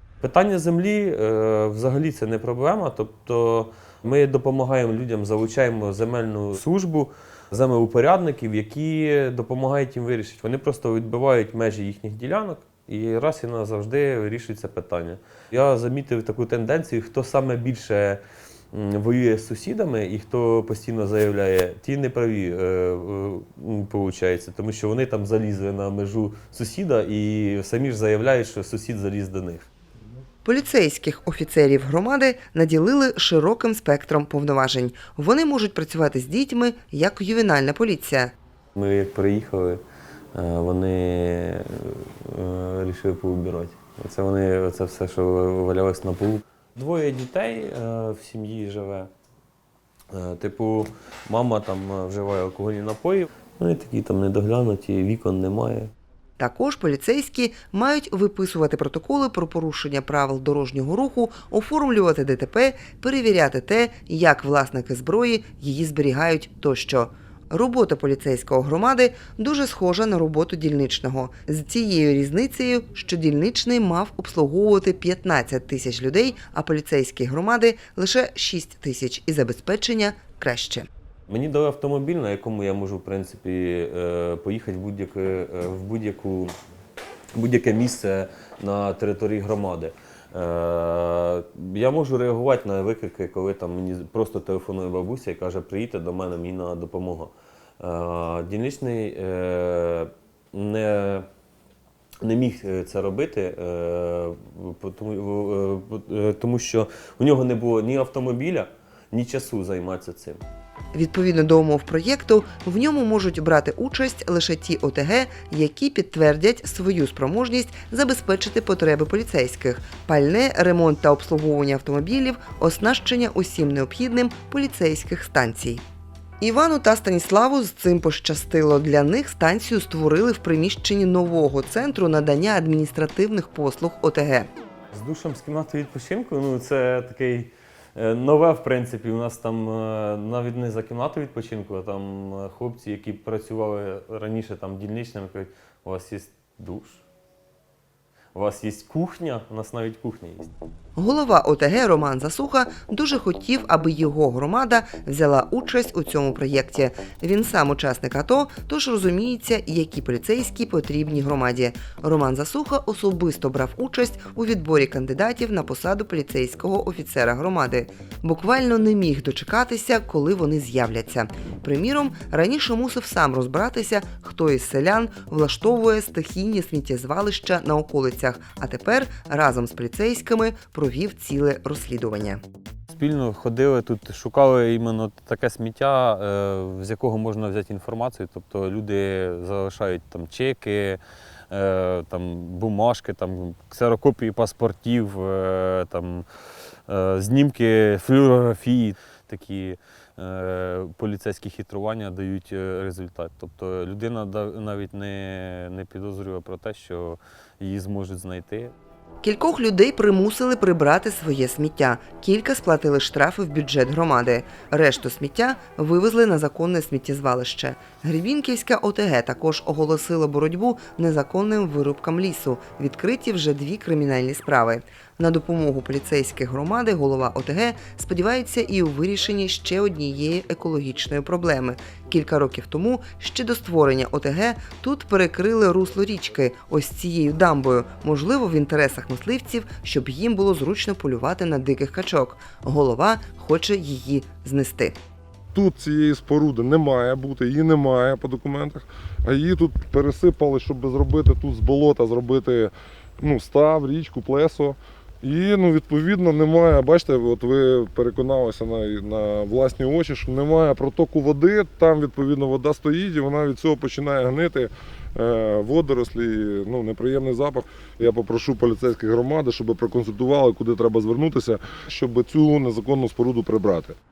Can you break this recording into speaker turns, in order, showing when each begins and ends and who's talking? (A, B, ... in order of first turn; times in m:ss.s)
0:00.2-0:18.2 A
0:18.7-0:29.7 A
0:30.4-0:38.3 B
0:38.8-0:39.8 A
0:40.3-0:49.1 A
0:50.1-0:55.9 A
0:56.4-1:20.9 B
1:21.3-1:26.5 A
1:27.3-1:41.2 A
1:42.2-1:50.4 A
1:50.9-2:05.8 B
2:06.4-2:14.5 B
2:14.9-2:27.0 A
2:28.3-2:30.5 A
2:31.0-3:02.4 B
3:02.9-3:16.2 A
3:16.9-3:28.7 A
3:29.2-4:05.0 B
4:05.5-4:33.9 C